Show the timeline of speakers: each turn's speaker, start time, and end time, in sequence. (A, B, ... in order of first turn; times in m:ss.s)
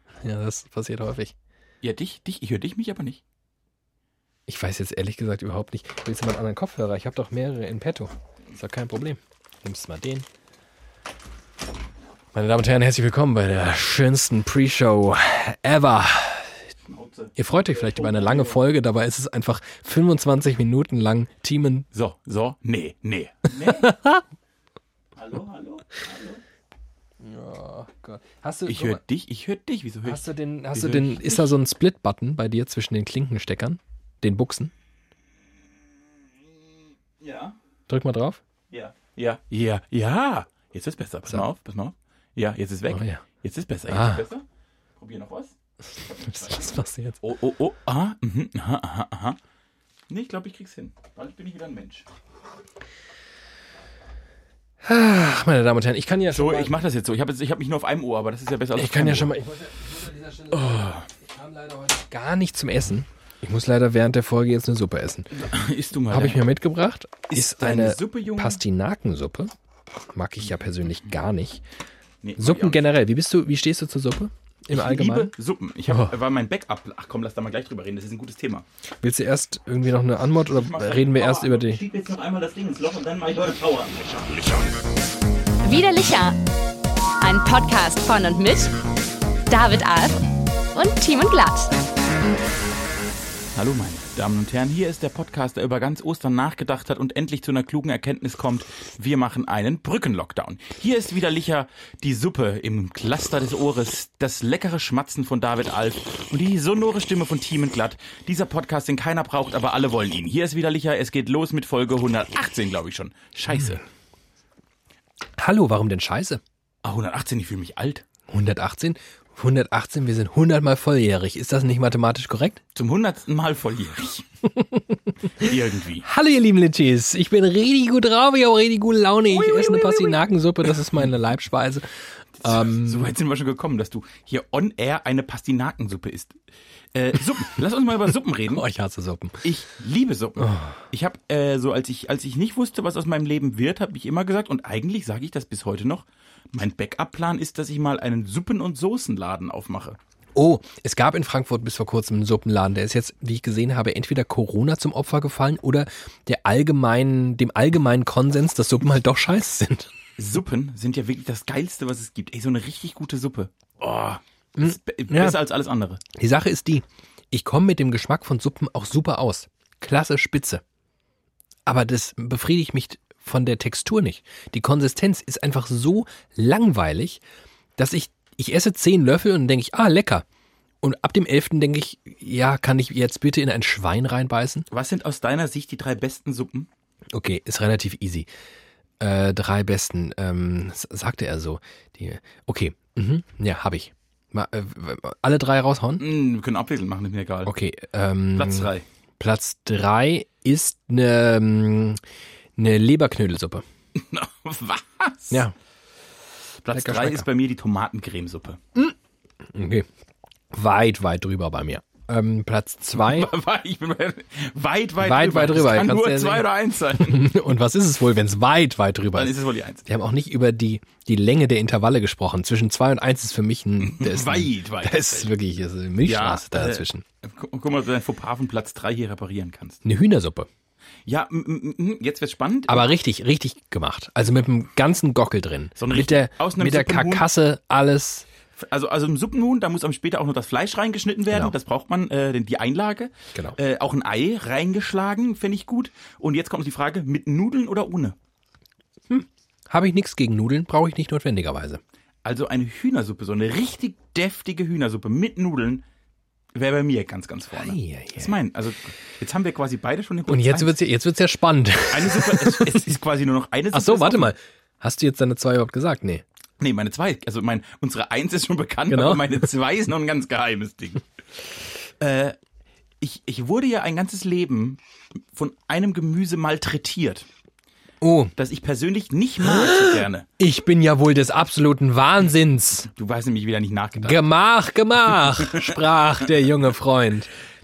0:00.2-0:01.3 A
0:01.8-0:03.2 B
0:04.5-0:10.2 A
0:12.3-0:16.5 A
0:16.8-0:18.6 B
0:17.4-0:21.9 A
0:21.9-0:24.0 B
0:23.7-0:24.2 A
0:25.2-0:26.4 B
0:27.2-0:29.0 A
0:28.6-0:31.5 B
0:30.0-0:34.7 A
0:37.2-0:37.6 B
0:37.9-0:38.4 A
0:38.7-0:44.4 B
0:42.9-0:43.2 A
0:43.9-0:44.2 A
0:45.0-0:45.5 B
0:46.0-0:47.2 A
0:47.2-0:49.4 B
0:50.1-0:52.1 B
0:54.8-0:56.7 A
0:56.3-0:59.3 B
0:58.7-1:05.5 A
1:00.6-1:01.0 B
1:05.3-1:06.5 B
1:06.1-1:09.5 A
1:07.3-1:08.6 B
1:10.1-1:11.6 A
1:12.2-1:12.9 B
1:12.4-1:15.3 A
1:14.7-1:18.6 B
1:15.9-1:16.1 A
1:19.0-1:21.8 A
1:20.5-1:24.6 B
1:25.6-1:26.4 C
1:27.2-1:28.7 C
1:29.5-1:31.8 C
1:33.5-1:53.8 B
1:55.4-1:56.4 A
1:56.8-1:58.0 B
1:58.3-2:02.6 A
2:02.7-2:04.3 B
2:04.5-2:11.9 A
2:05.4-2:06.1 B
2:09.3-2:10.2 B
2:12.4-2:16.4 B
2:12.4-2:13.1 A
2:16.9-2:18.6 B
2:18.5-2:19.4 A
2:19.4-2:30.0 B
2:20.4-2:20.8 A
2:30.3-2:39.9 A
2:40.2-2:43.5 B
2:43.8-2:45.4 A
2:44.6-2:46.0 B
2:46.1-2:50.6 A
2:51.6-2:57.2 A
2:57.8-3:00.2 A
3:00.8-3:04.7 A
3:04.7-3:06.7 B
3:07.1-3:08.3 A
3:09.0-3:16.0 A
3:16.0-3:17.5 B
3:17.4-3:22.0 A
3:18.4-3:18.8 B
3:22.6-3:23.6 A
3:23.9-3:25.4 B
3:26.6-3:28.6 B
3:26.7-3:27.3 A
3:29.5-3:29.9 A
3:30.5-3:33.3 A
3:33.0-3:37.3 B
3:35.0-3:36.5 A
3:37.0-3:47.0 A
3:39.1-3:39.8 B
3:43.8-3:45.3 B
3:46.0-3:49.8 B
3:49.8-3:50.5 A
3:51.1-3:52.9 B
3:52.7-3:58.2 A
3:55.8-3:57.2 B
3:58.6-4:08.2 B
4:09.1-4:11.8 A
4:12.2-4:15.8 B
4:16.5-4:20.7 B
4:17.6-4:18.3 A
4:20.3-4:22.8 A
4:21.9-4:24.3 B
4:23.7-4:26.2 A
4:26.6-4:31.0 B
4:28.9-4:29.4 A
4:32.0-4:32.4 B
4:33.0-4:34.8 B
4:35.3-4:37.3 B
4:38.0-4:38.3 A
4:38.4-4:40.3 B
4:39.4-4:42.9 A
4:42.8-4:44.2 B
4:44.0-4:47.3 A